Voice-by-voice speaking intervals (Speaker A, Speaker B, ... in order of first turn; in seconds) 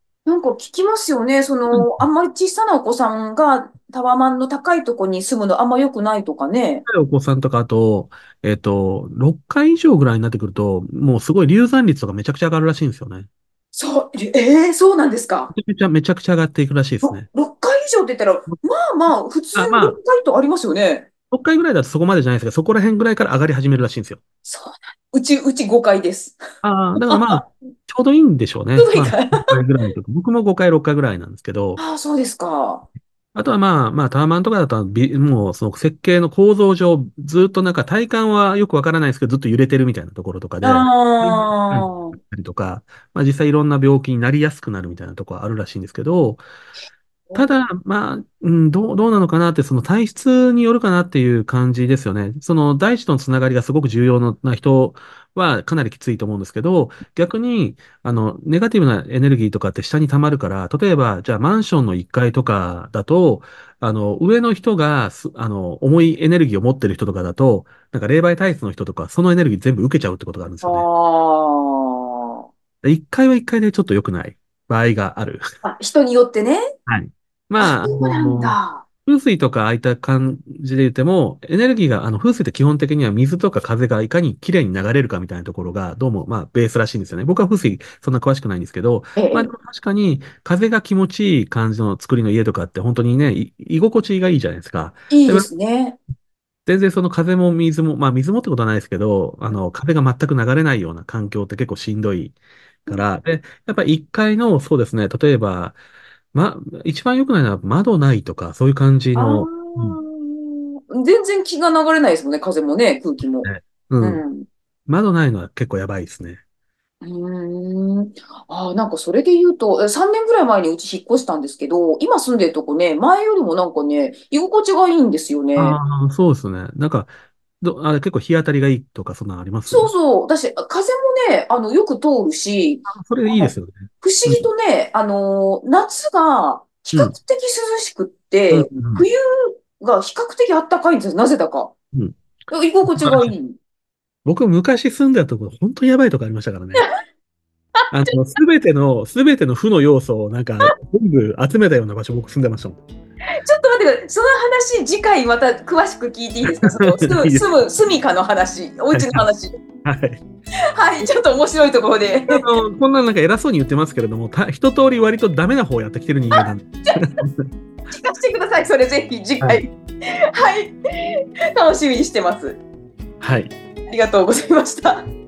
Speaker A: 0.2-6.8, 13.7-15.5, 17.0-21.1, 24.4-26.4, 27.0-27.5, 28.8-29.5, 31.8-32.9, 40.6-42.1, 70.6-72.4, 75.6-76.6, 77.6-78.8, 89.2-89.5, 95.1-96.0, 109.2-113.5, 114.0-114.5, 117.0-125.8, 129.7-141.7, 142.5-143.6, 153.4-159.5, 160.8-162.4, 167.9-172.6, 173.9-175.1
Speaker B: 1.7-2.1, 6.8-13.3, 15.5-17.3, 19.6-20.0, 21.3-24.2, 26.6-31.8, 33.3-46.4, 47.3-70.8, 72.8-75.4, 76.9-95.5, 96.7-105.8, 106.3-110.0, 113.4-114.2, 114.9-116.4, 125.5-129.9, 132.8-134.5, 138.5-139.1, 142.8-143.3, 144.2-146.9, 147.9-152.8, 156.6-157.4, 158.9-159.2, 159.8-160.2, 162.3-167.5, 173.2-173.5